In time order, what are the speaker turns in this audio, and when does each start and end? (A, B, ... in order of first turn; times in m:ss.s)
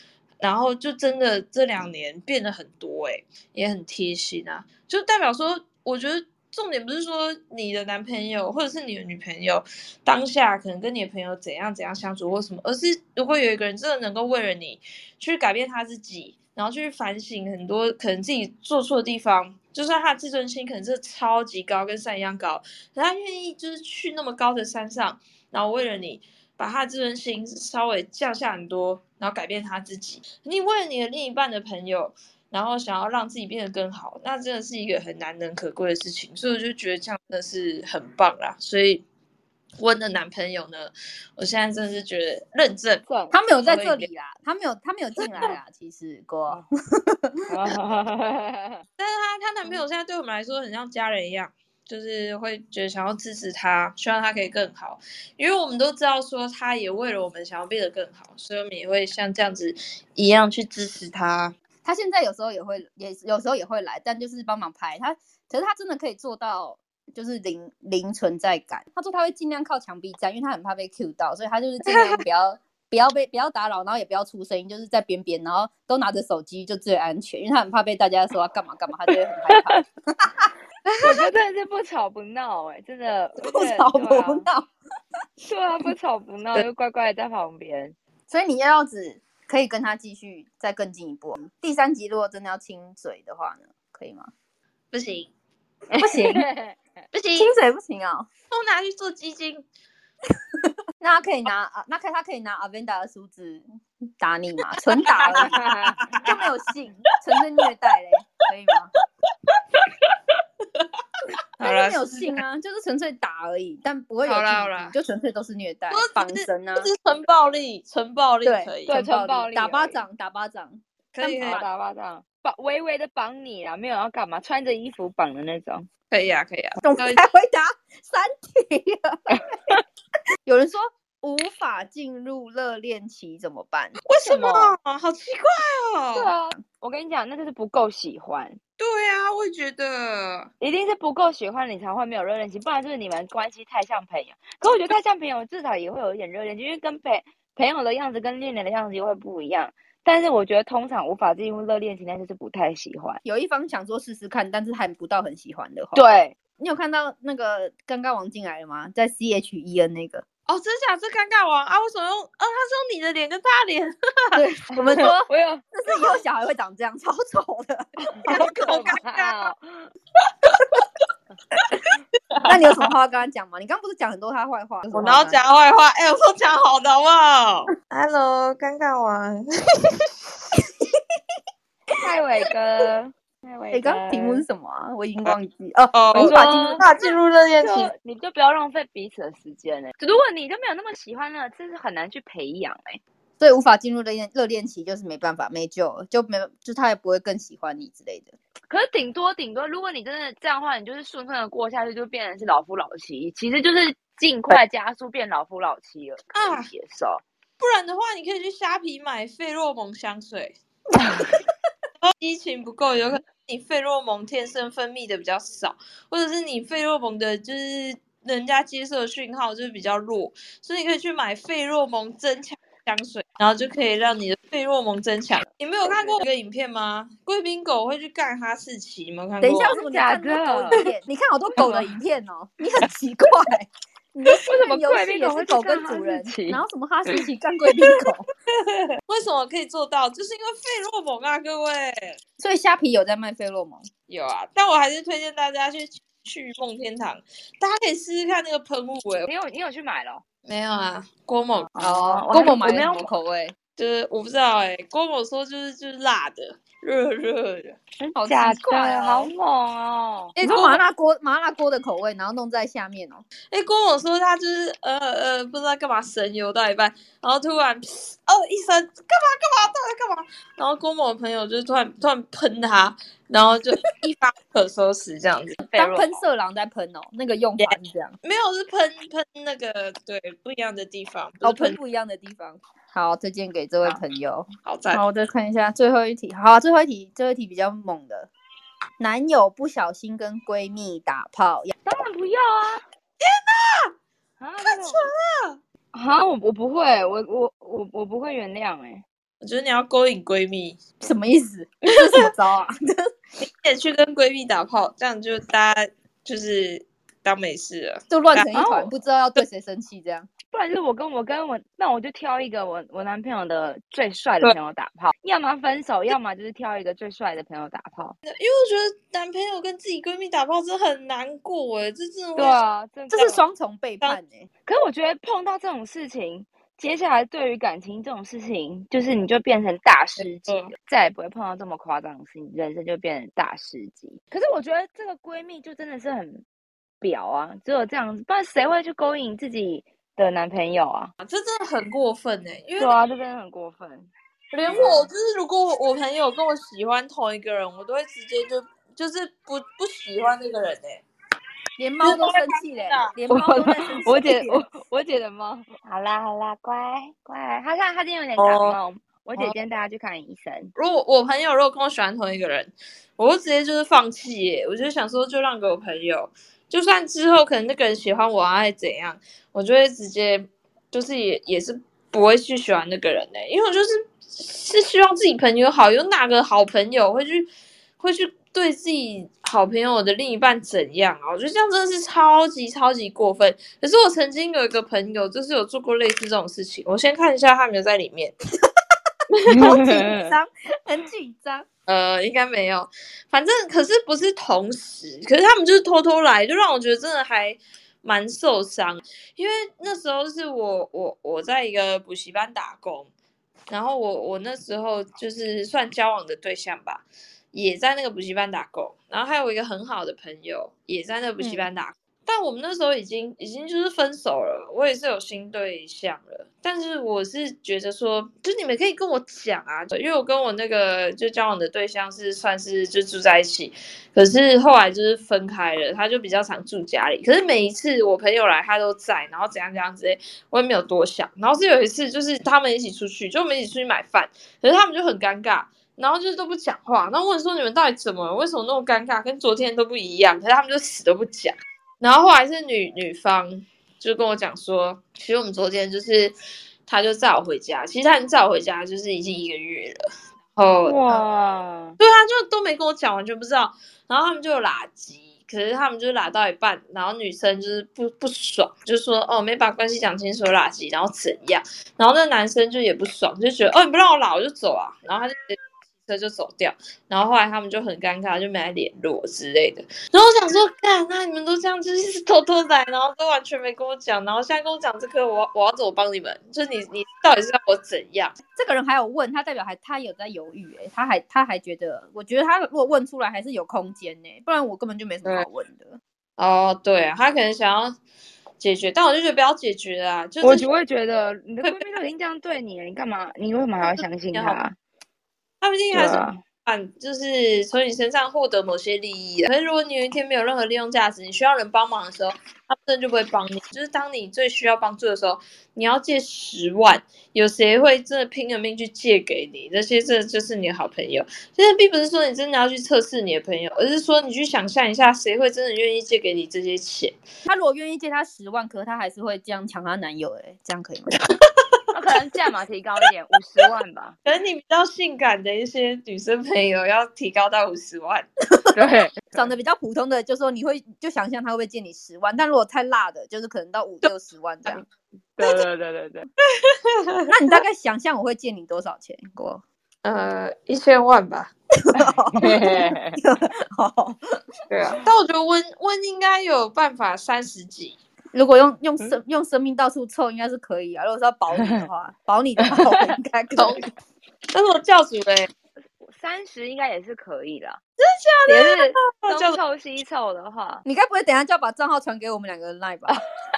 0:00.4-0:39.0 A
0:39.8-0:43.0 A
0:43.0-0:43.4 B
0:43.3-0:47.3 C
0:43.6-0:44.1 A
0:47.5-0:48.8 B
0:49.0-1:01.5 A
1:01.8-1:20.5 C
1:19.5-1:19.8 B
1:20.9-1:21.3 A
1:21.0-1:24.5 B
1:23.4-1:24.7 C
1:25.4-1:28.0 B
1:28.3-1:34.3 C
1:34.9-1:35.3 A
1:35.9-1:36.8 B
1:36.0-1:36.4 C
1:37.1-1:37.5 A
1:37.3-1:38.3 C
1:38.5-1:39.6 A
1:41.0-1:43.6 C
1:44.2-1:45.6 C
1:45.0-1:46.4 A
1:45.3-1:46.0 B
1:46.2-1:48.9 C
1:49.5-1:49.9 A
1:51.6-1:52.4 A
1:51.6-1:56.9 C
1:54.2-1:54.9 A
1:55.9-1:59.0 A
1:58.4-2:01.6 C
1:58.9-2:00.0 B
2:01.1-2:01.6 A
2:01.4-2:05.9 B
2:06.1-2:07.2 A
2:06.8-2:09.8 C
2:09.3-2:09.8 B
2:10.4-2:14.0 C
2:14.0-2:16.3 A
2:14.2-2:14.7 B
2:16.1-2:18.6 B
2:18.8-2:20.5 A
2:20.6-2:33.2 B
2:24.6-2:24.9 A
2:33.2-2:36.0 C
2:35.9-2:36.3 B
2:36.6-2:40.2 C
2:40.5-2:44.4 A
2:44.3-2:49.0 C
2:44.8-2:45.6 B
2:48.2-2:49.9 B
2:48.6-2:49.5 A
2:50.4-2:50.8 A
2:52.3-2:52.8 A
2:52.4-2:55.4 C
2:54.9-3:00.0 A
3:02.0-3:04.4 B
3:03.7-3:07.0 C
3:05.9-3:07.9 A
3:06.1-3:06.9 B
3:07.6-3:13.0 B
3:13.4-3:18.3 C
3:18.7-3:27.2 B
3:26.3-3:26.7 A
3:27.6-3:30.6 A
3:31.0-3:31.4 B
3:32.0-3:49.8 A
3:45.8-3:46.2 B
3:49.4-3:58.2 C
3:49.6-3:50.8 B
3:54.4-3:57.2 B
3:58.7-4:02.2 A
4:02.4-4:03.9 C
4:04.1-4:09.3 A
4:09.2-4:10.2 B
4:10.4-4:11.7 A
4:11.7-4:13.1 B
4:11.8-4:13.5 C
4:13.8-4:17.8 A
4:18.0-4:20.4 B
4:18.2-4:19.3 C
4:20.4-4:20.8 A
4:20.4-4:23.2 C
4:23.5-4:35.6 A
4:35.6-4:36.2 B
4:35.7-4:38.2 C
4:37.6-4:41.8 A
4:41.4-4:48.3 C
4:44.6-4:45.0 A
4:49.0-4:51.7 C
4:51.8-4:52.8 B
4:53.2-4:53.9 A
4:54.4-4:55.1 B
4:54.6-4:55.6 A
4:55.9-4:59.0 B
4:59.4-5:00.8 A
5:01.0-5:03.1 C
5:02.0-5:02.3 A
5:03.4-5:08.5 A
5:08.1-5:10.3 C
5:08.5-5:08.9 B
5:10.5-5:18.1 B
5:18.2-5:22.6 A
5:22.4-5:23.4 B
5:23.1-5:24.5 C
5:24.6-5:36.4 B
5:30.2-5:30.7 A
5:37.0-5:41.1 B
5:41.2-5:43.0 A
5:42.8-5:44.1 B
5:44.5-5:51.0 A
5:44.7-5:45.1 B
5:51.8-5:54.6 C
5:52.0-5:53.1 A
5:53.3-6:00.7 B
5:58.4-5:58.8 A
6:00.8-6:28.3 A
6:29.3-6:30.0 A
6:29.5-6:30.3 B
6:29.5-6:31.6 C
6:31.9-6:43.1 A
6:43.7-7:26.3 A
6:51.4-6:51.7 C
7:26.8-7:30.0 A
7:30.6-7:31.2 A
7:30.8-7:32.0 B
7:32.0-7:58.4 A
7:58.5-8:06.0 C
8:06.4-8:08.0 A
8:08.6-8:10.7 A
8:10.4-8:14.8 B
8:11.6-8:12.0 A
8:14.0-8:14.6 A
8:15.6-8:37.2 A
8:15.9-8:16.4 B
8:37.4-8:41.2 C
8:41.9-8:44.2 B
8:44.2-8:48.3 A
8:48.7-8:49.1 B
8:49.3-8:54.8 C
8:55.4-8:56.3 B
8:56.6-8:57.3 A
8:57.3-8:59.6 C
9:00.0-9:01.5 A
9:01.8-9:04.2 C
9:02.0-9:03.2 B
9:04.7-9:08.0 A
9:08.3-9:13.9 C
9:11.6-9:11.8 B
9:12.6-9:13.1 B
9:13.6-9:13.8 A
9:14.5-9:15.5 A
9:16.0-9:17.8 B
9:18.0-9:19.6 A
9:18.5-9:18.8 C
9:18.5-9:20.8 B
9:20.8-9:23.2 C